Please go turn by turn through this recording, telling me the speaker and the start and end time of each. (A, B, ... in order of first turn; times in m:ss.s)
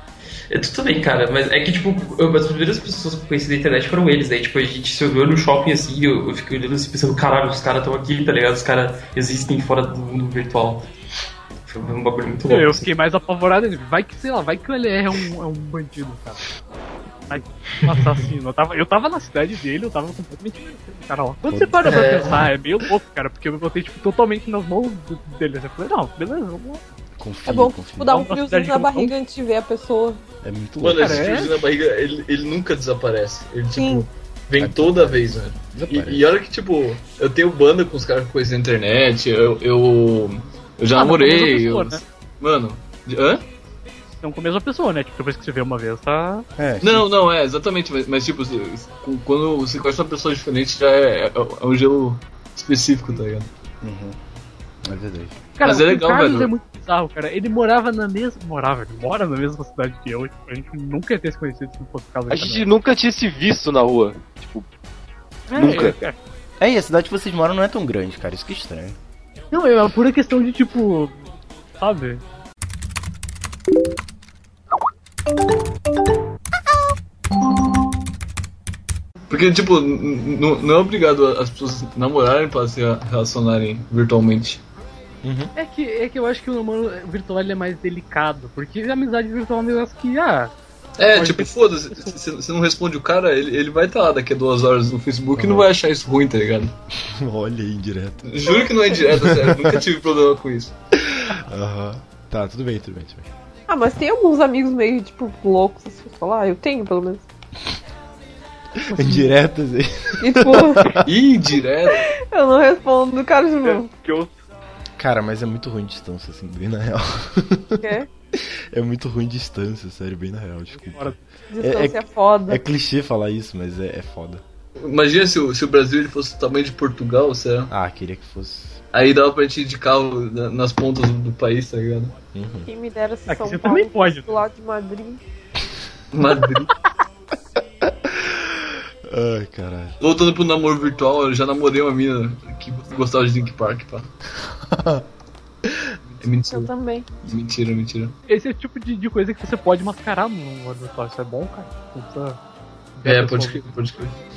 0:00.5-0:10.9 A
0:11.7-0:12.9 A
0:12.5-0:16.4 B
0:17.3-0:26.8 B
0:21.5-0:22.0 C
0:21.8-0:22.4 A
0:27.2-0:28.1 C
0:27.5-0:30.2 D
0:28.1-0:29.1 B
0:30.4-0:31.4 C
0:30.8-0:43.4 E
0:31.0-0:31.5 B
0:33.8-0:34.0 D
0:34.6-0:36.3 C
0:41.0-0:42.0 B
0:44.2-0:46.5 B
0:46.6-0:47.1 C
0:46.8-0:53.5 E
0:53.8-0:54.2 C
0:54.8-0:55.4 C
0:55.6-1:02.7 B
0:55.6-0:56.5 E
1:02.3-1:04.7 F
1:05.5-1:06.2 B
1:05.6-1:06.0 F
1:05.6-1:05.9 C
1:06.6-1:09.0 C
1:09.5-1:11.3 B
1:11.8-1:12.2 B
1:19.3-1:24.6 E
1:25.2-1:25.5 C
1:25.6-1:30.5 B
1:31.0-1:36.8 E
1:31.1-1:32.2 B
1:35.4-1:35.7 C
1:37.1-1:39.8 C
1:38.2-1:40.7 E
1:40.9-1:43.3 C
1:43.7-1:47.2 D
1:48.9-1:51.1 C
1:48.9-1:49.3 B
1:50.2-1:51.0 D
1:51.0-1:52.0 E
1:51.9-1:53.9 D
1:53.6-1:54.3 F
1:55.0-2:04.4 C
1:57.8-1:58.1 D
2:00.8-2:01.2 B
2:01.5-2:02.6 D
2:04.8-2:07.7 E
2:07.7-2:08.8 C
2:08.9-2:12.2 E
2:12.3-2:12.7 C
2:12.7-2:15.2 D
2:13.3-2:14.4 B
2:16.1-2:16.7 E
2:17.6-2:20.0 C
2:20.0-2:24.1 E
2:24.4-2:25.1 C
2:25.6-2:25.9 C
2:26.2-2:26.7 E
2:26.5-2:27.1 D
2:27.2-2:28.2 E
2:28.3-2:32.4 B
2:33.0-2:33.7 B
2:33.0-2:34.1 E